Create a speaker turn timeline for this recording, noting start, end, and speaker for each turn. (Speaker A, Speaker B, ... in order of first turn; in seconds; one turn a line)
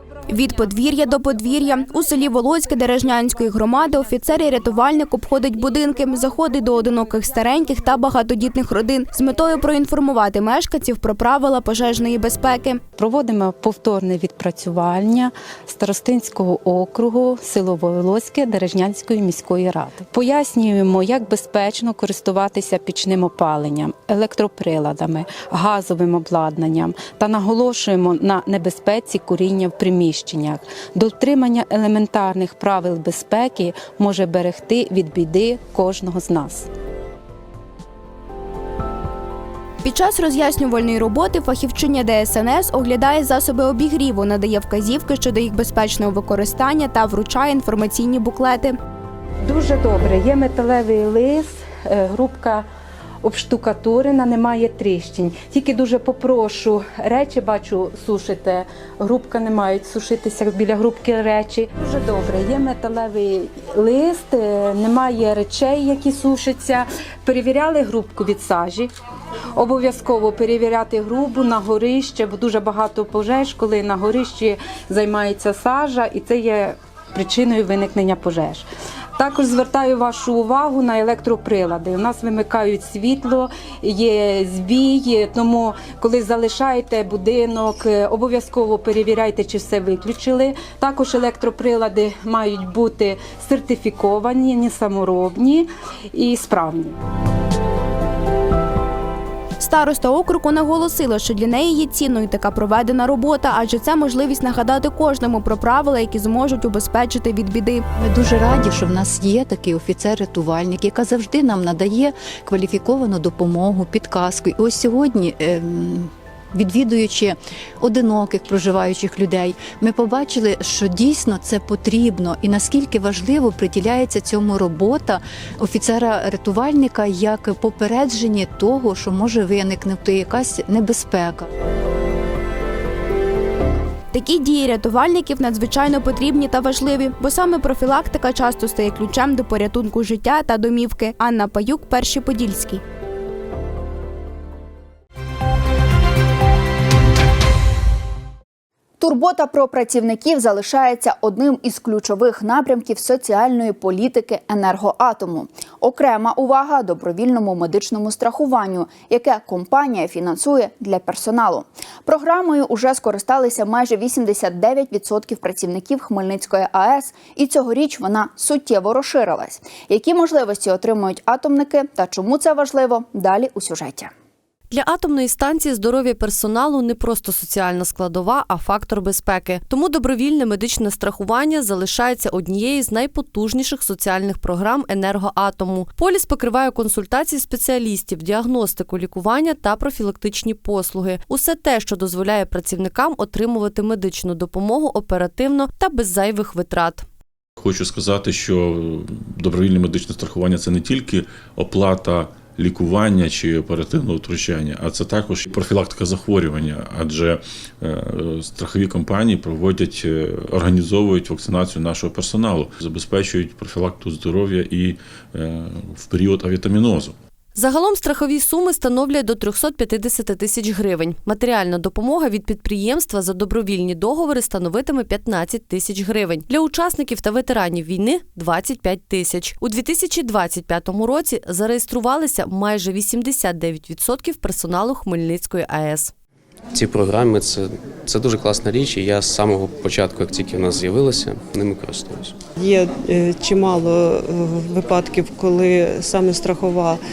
Speaker A: 0.3-12.8
Speaker B: 13.0-36.7
Speaker A: 39.8-48.7
Speaker B: 49.5-52.6
Speaker B: 53.2-68.9
Speaker B: 69.6-78.7
Speaker B: 79.2-97.0
Speaker A: 99.6-107.8
Speaker C: 108.0-131.5
Speaker A: 134.1-142.8
Speaker D: 149.0-174.1
Speaker E: 174.7-197.0
Speaker F: 197.6-217.2
Speaker E: 217.5-236.1
Speaker G: 236.7-242.3
Speaker H: 242.6-246.9